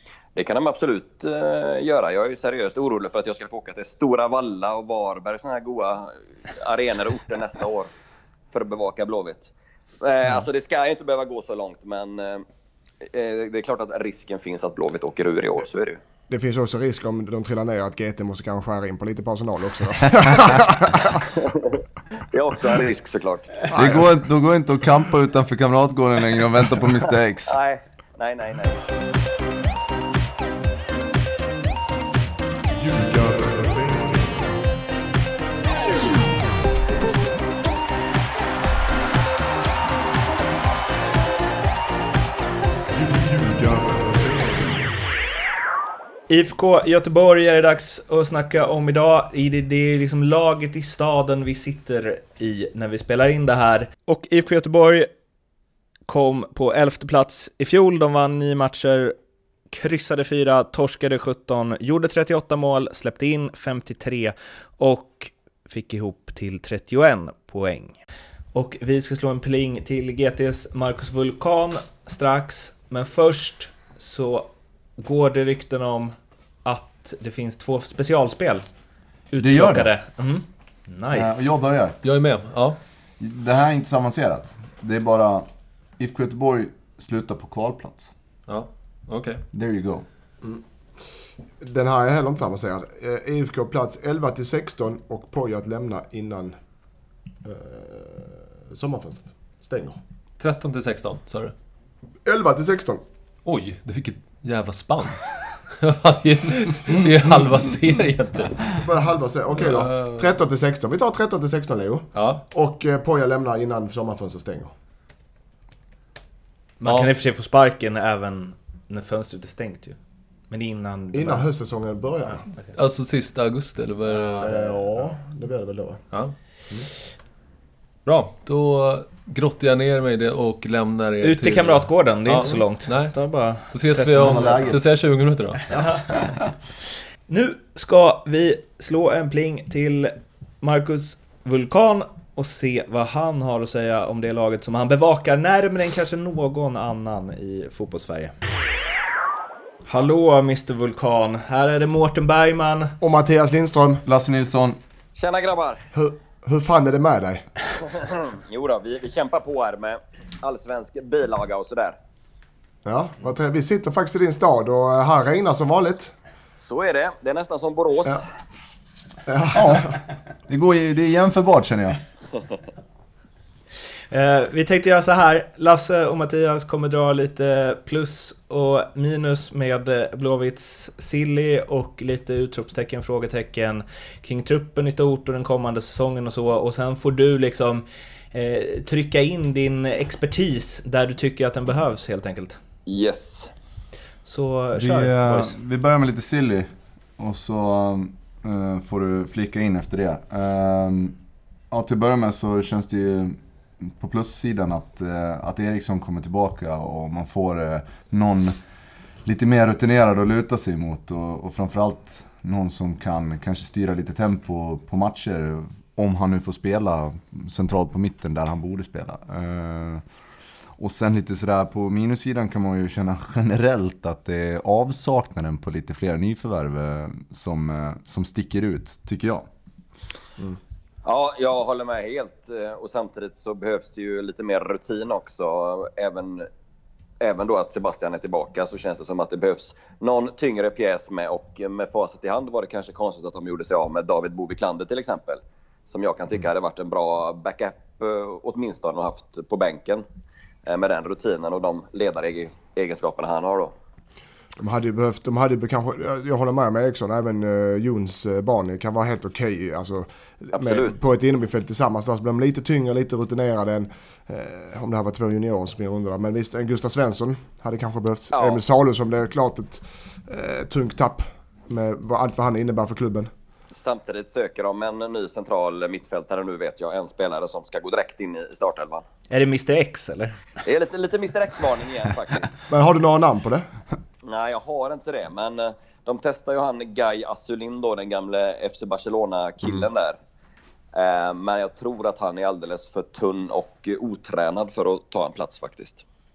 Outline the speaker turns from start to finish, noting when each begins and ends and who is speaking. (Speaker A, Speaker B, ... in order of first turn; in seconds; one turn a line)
Speaker A: 0.4-7.9
Speaker A: 8.5-12.4
Speaker A: 13.0-16.0
Speaker B: 16.3-21.3
Speaker A: 21.4-21.8
Speaker A: 22.3-23.6
Speaker B: 23.7-24.1
Speaker C: 23.8-27.6
Speaker A: 27.5-28.8
Speaker B: 33.1-34.2
Speaker D: 46.3-55.1
Speaker D: 56.1-59.2
Speaker D: 59.7-68.0
Speaker D: 68.5-78.7
Speaker D: 79.3-81.4
Speaker C: 79.4-79.9
Speaker C: 81.1-82.0
Speaker E: 82.0-82.8
Speaker C: 83.2-88.1
Speaker E: 88.5-89.4
Speaker C: 89.5-90.0
Speaker B: 91.6-96.5
Speaker B: 97.4-100.0
Speaker E: 100.4-101.5
Speaker B: 102.2-103.0
Speaker E: 103.5-108.9
Speaker B: 108.8-114.7
Speaker E: 109.6-110.3
Speaker E: 112.1-112.4
Speaker D: 116.8-120.0
Speaker E: 116.8-117.1
Speaker D: 120.5-121.5
Speaker B: 121.1-122.4
Speaker E: 122.7-124.7
Speaker B: 124.4-126.0
Speaker E: 128.1-133.2
Speaker D: 131.2-134.6
Speaker E: 133.7-135.6
Speaker C: 134.2-134.8
Speaker D: 135.7-136.1
Speaker D: 137.3-148.3
Speaker D: 149.9-153.0
Speaker B: 153.0-154.0
Speaker C: 154.1-154.8
Speaker A: 155.2-155.8
Speaker B: 155.9-157.5
Speaker A: 158.0-162.0
Speaker B: 162.8-166.1
Speaker A: 166.6-168.3
Speaker B: 169.3-169.9
Speaker C: 169.5-172.0
Speaker D: 174.1-192.6
Speaker A: 192.9-193.5
Speaker D: 194.2-195.6
Speaker C: 194.8-201.2
Speaker C: 201.7-208.6
Speaker C: 209.2-220.0
Speaker C: 220.8-229.5
Speaker A: 231.1-236.5
Speaker A: 237.2-250.0
Speaker A: 250.7-253.7
Speaker B: 254.6-273.3
Speaker A: 260.5-261.0
Speaker A: 268.3-268.6
Speaker A: 273.8-279.1
Speaker D: 279.3-280.4
Speaker A: 280.6-282.7
Speaker B: 282.7-283.7
Speaker A: 284.3-290.2
Speaker A: 290.9-296.0